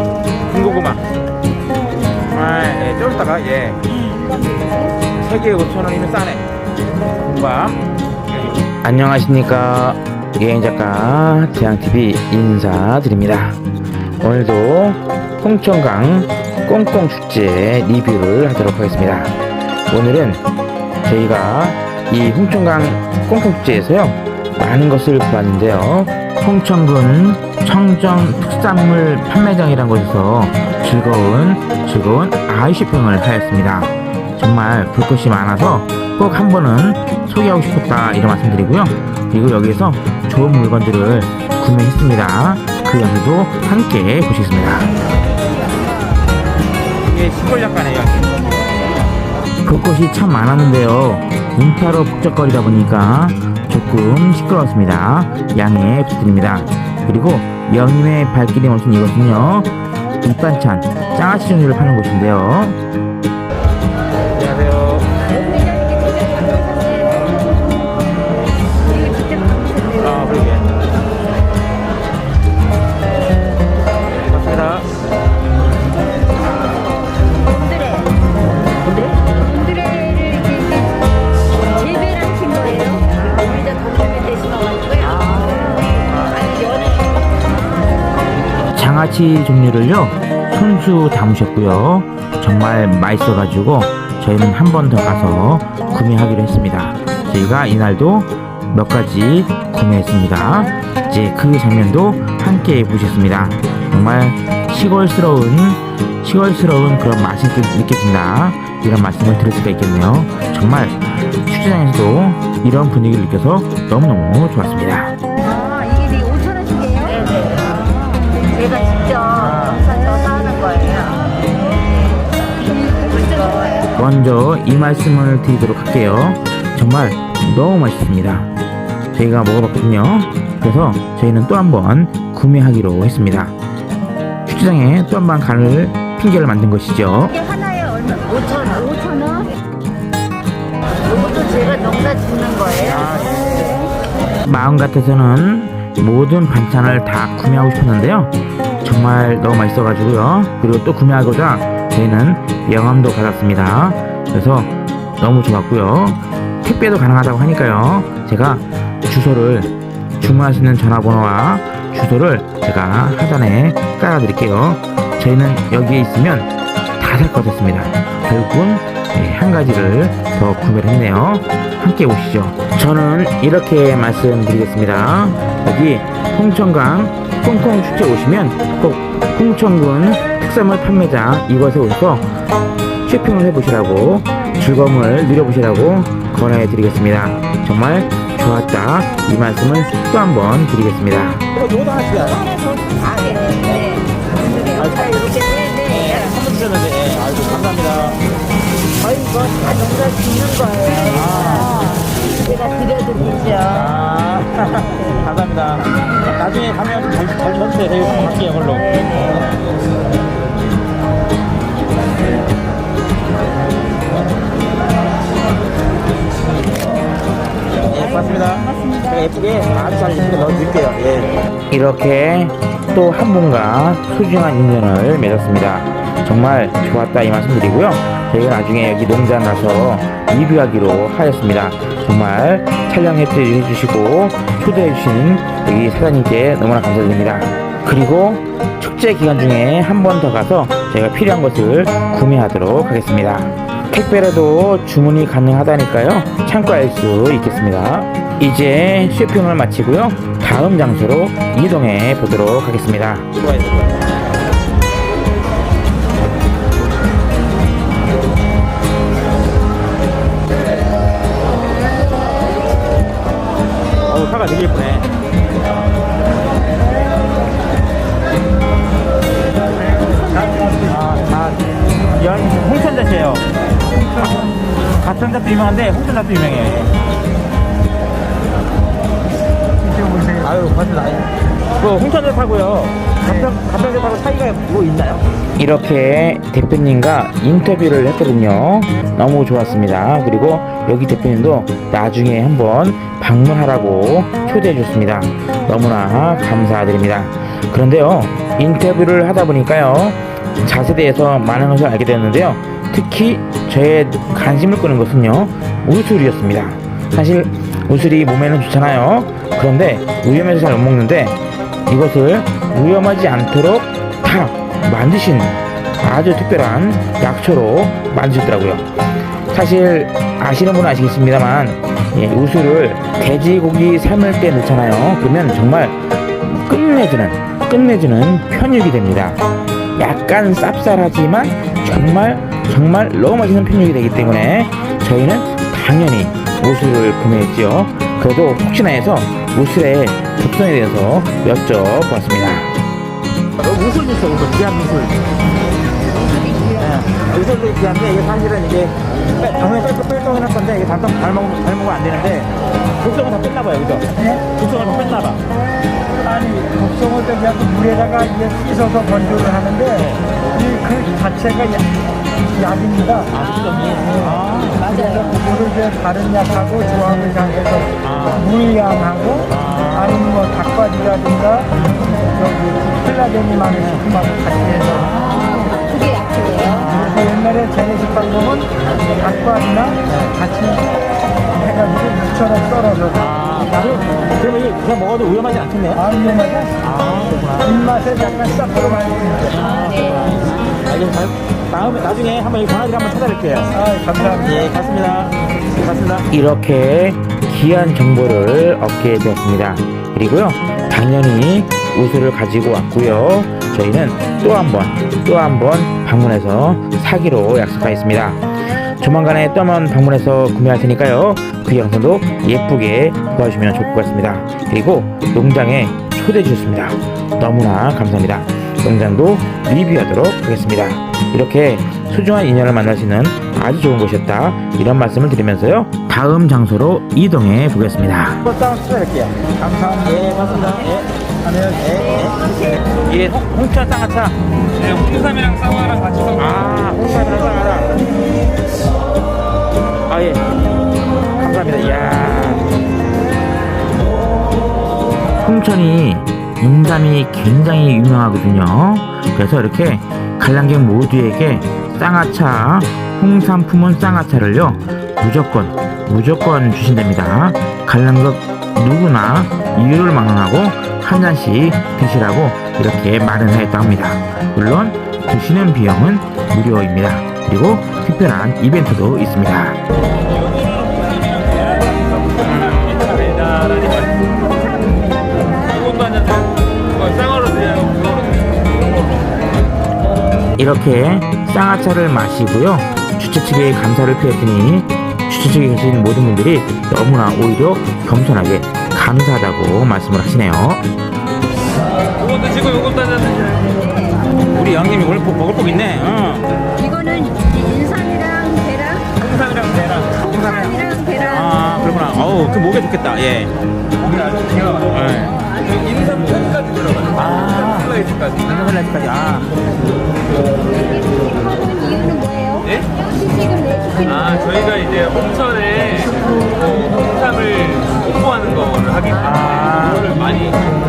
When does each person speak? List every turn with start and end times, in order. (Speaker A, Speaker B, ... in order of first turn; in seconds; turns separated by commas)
Speaker A: 0.5-1.0, Speaker A: 2.3-3.9, Speaker B: 4.0-4.9, Speaker A: 5.1-6.4, Speaker A: 7.3-7.7, Speaker C: 8.8-13.6, Speaker C: 14.2-19.3, Speaker C: 19.9-20.4, Speaker C: 21.0-44.9, Speaker A: 47.1-48.4, Speaker C: 49.6-62.8, Speaker A: 64.4-65.1, Speaker B: 65.2-67.7, Speaker B: 68.9-70.5, Speaker A: 70.0-70.7, Speaker A: 74.3-74.9, Speaker B: 77.5-78.1, Speaker B: 78.9-80.9, Speaker B: 81.8-85.8, Speaker A: 85.2-86.5, Speaker C: 88.7-115.1, Speaker B: 115.4-119.2, Speaker A: 119.5-119.8, Speaker B: 119.8-121.6, Speaker B: 122.6-123.9, Speaker C: 124.0-128.5, Speaker C: 129.1-133.5, Speaker C: 134.5-137.3, Speaker B: 137.3-139.5, Speaker B: 141.2-142.7, Speaker A: 142.8-143.6, Speaker C: 144.4-148.3, Speaker C: 148.8-182.3, Speaker C: 183.1-191.4, Speaker A: 191.5-192.4, Speaker B: 192.4-196.0, Speaker A: 194.8-198.2, Speaker B: 199.1-201.0, Speaker A: 201.1-202.0, Speaker B: 202.4-203.7, Speaker A: 203.7-208.9, Speaker A: 217.9-221.3, Speaker B: 217.9-219.2, Speaker C: 221.7-253.4, Speaker A: 253.5-253.9, Speaker A: 264.1-265.1, Speaker B: 270.2-270.7, Speaker A: 270.8-271.6, Speaker A: 272.1-273.4, Speaker A: 274.9-276.9, Speaker D: 279.9-280.3, Speaker A: 280.4-285.2, Speaker C: 285.6-318.9, Speaker C: 319.5-329.4, Speaker C: 329.9-342.7, Speaker A: 343.6-345.2, Speaker B: 346.3-346.9, Speaker A: 346.8-355.4, Speaker D: 356.2-359.9, Speaker A: 359.9-360.2, Speaker D: 360.6-361.8, Speaker D: 362.6-363.2, Speaker A: 363.3-364.9, Speaker B: 364.8-365.3, Speaker D: 365.0-367.9, Speaker A: 368.0-368.5, Speaker D: 368.5-369.4, Speaker A: 369.4-370.3, Speaker D: 370.2-371.7, Speaker A: 371.8-372.1, Speaker D: 372.4-374.9, Speaker A: 373.8-374.1, Speaker A: 374.9-375.7, Speaker B: 375.1-377.1, Speaker A: 376.8-377.2, Speaker D: 377.1-380.8, Speaker A: 380.1-380.4, Speaker D: 381.6-383.1, Speaker A: 383.1-386.0, Speaker D: 386.1-386.7, Speaker A: 386.8-387.9, Speaker D: 387.8-389.6, Speaker A: 389.6-393.8, Speaker B: 389.7-390.2, Speaker D: 393.8-394.4, Speaker A: 394.4-396.2, Speaker C: 396.3-408.4, Speaker C: 409.0-428.4, Speaker A: 428.4-432.4, Speaker A: 433.1-434.3, Speaker E: 434.8-436.4, Speaker A: 436.3-438.0, Speaker A: 440.1-440.4, Speaker A: 441.4-442.6, Speaker C: 445.4-469.8, Speaker E: 470.6-474.0, Speaker B: 474.2-476.0, Speaker E: 475.9-479.1, Speaker C: 480.6-490.8, Speaker E: 492.2-493.6, Speaker B: 493.6-494.2, Speaker A: 494.5-496.5, Speaker B: 496.8-499.1, Speaker A: 499.3-500.8, Speaker E: 499.4-500.1, Speaker B: 500.2-501.6, Speaker A: 501.3-503.5, Speaker A: 504.1-505.4, Speaker E: 504.2-504.8, Speaker B: 505.1-506.3, Speaker E: 506.1-508.4, Speaker A: 507.1-509.6, Speaker B: 510.7-514.8, Speaker E: 514.7-520.6, Speaker A: 519.2-520.1